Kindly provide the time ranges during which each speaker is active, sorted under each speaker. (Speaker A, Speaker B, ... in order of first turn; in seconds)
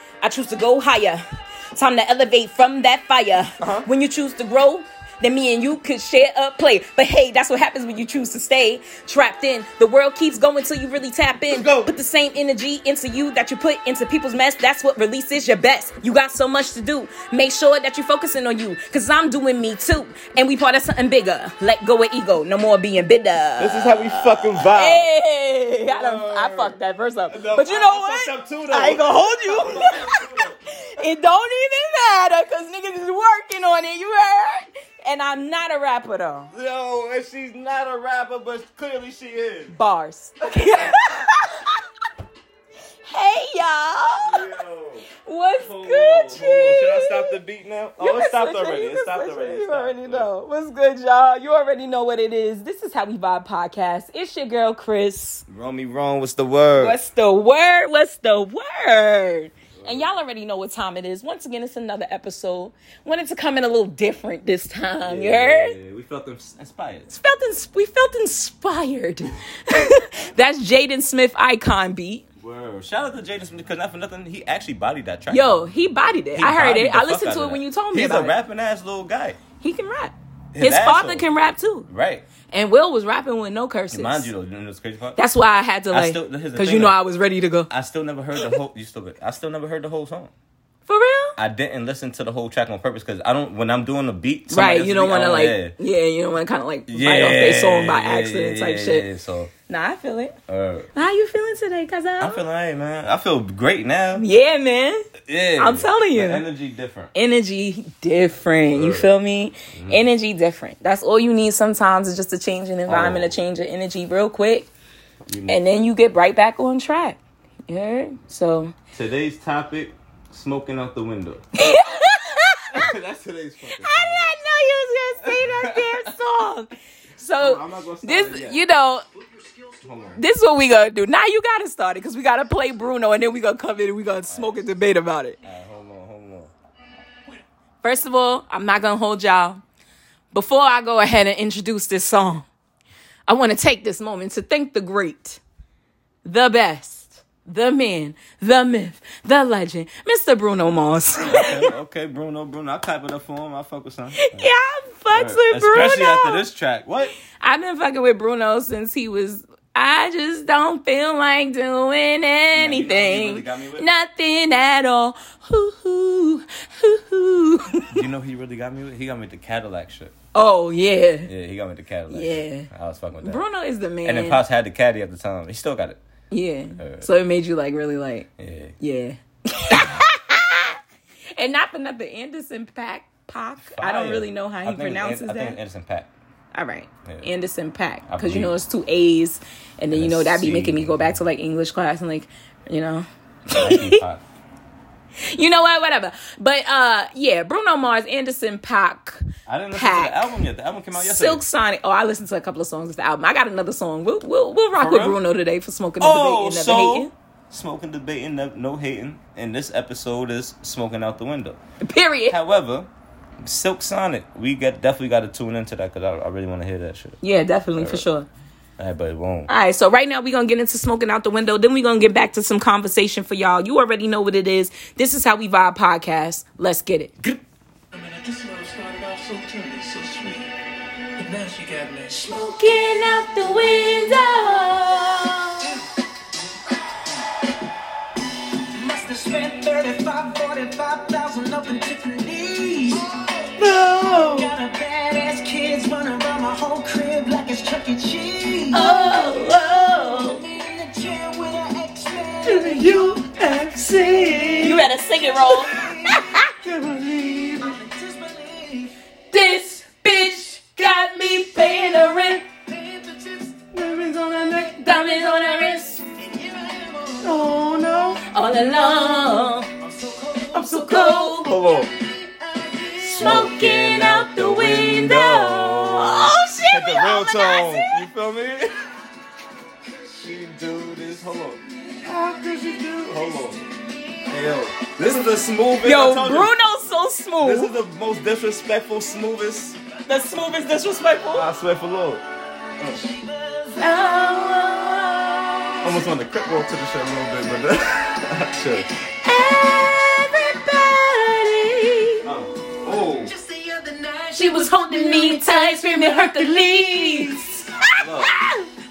Speaker A: 0.2-36.5, 39.7-41.8, 43.0-44.5, 45.2-47.4, 48.0-55.4, 56.8-65.8, 67.1-72.2, 75.3-78.3, 79.6-81.9, 82.5-84.3, 85.2-87.7, 90.9-91.4, 94.5-99.0, 99.7-100.3, 100.9-102.4, 104.2-106.5, 107.1-114.7, 115.5-118.7, 121.5-122.9, 123.7-129.0, 130.2-135.4, 137.8-139.6, 140.3-142.5, 143.3-145.4, 146.2-151.7, 154.1-156.4, 157.3-168.0, 170.3-171.3, 172.1-172.7, 173.2-174.4, 176.3-178.3, 178.8-180.8, 181.4-185.6, 186.5-194.0, 195.2-200.3, 200.9-207.1, 211.8-212.3, 217.2-218.3, 219.5-227.4, 232.2-235.7, 248.7-250.4, 254.6-256.5, 259.3-262.4, 264.5-266.0, 268.3-269.7, 270.6-271.6, 273.1-277.9, 285.8-287.7, 290.1-291.5, 293.8-295.9, 299.2-302.3, 304.3-308.7
Speaker B: 3.6-3.9, 11.5-11.9, 23.6-25.1, 25.9-26.7, 27.3-30.6, 36.5-39.7, 44.2-50.3, 55.5-57.0, 59.7-60.1, 65.0-67.1, 72.4-75.8, 76.3-79.4, 80.5-81.2, 81.9-82.2, 83.9-85.2, 85.9-87.0, 87.7-90.3, 91.4-95.8, 96.9-99.5, 100.5-100.9, 102.2-104.2, 105.2-107.1, 108.7-109.1, 109.7-110.0, 112.9-113.4, 115.3-115.6, 118.9-121.5, 122.7-124.3, 125.2-126.1, 127.4-128.6, 129.7-130.2, 134.3-134.6, 135.4-136.5, 151.2-154.5, 155.1-157.1, 162.5-163.9, 167.9-170.1, 171.2-173.4, 174.0-176.0, 176.8-177.1, 178.4-178.7, 183.6-186.1, 187.0-187.3, 188.1-188.5, 189.9-191.1, 193.5-194.2, 199.5-201.4, 204.7-205.2, 206.0-211.6, 212.3-212.9, 213.4-217.2, 217.8-218.1, 218.8-219.5, 243.6-244.5, 252.4-254.9, 256.5-257.8, 263.7-264.8, 267.2-268.2, 270.5-271.9, 273.1-278.8, 280.2-283.6, 284.3-286.5, 287.4-289.8, 291.3-292.2, 295.8-298.9, 302.2-303.3, 308.0-308.3
Speaker C: 227.9-230.5, 231.2-232.4, 238.7-243.5, 244.2-249.1, 250.4-253.2, 255.7-256.2, 257.6-258.9, 262.6-263.7, 266.1-267.5, 268.9-273.4, 282.0-284.4, 293.0-294.7, 302.8-308.0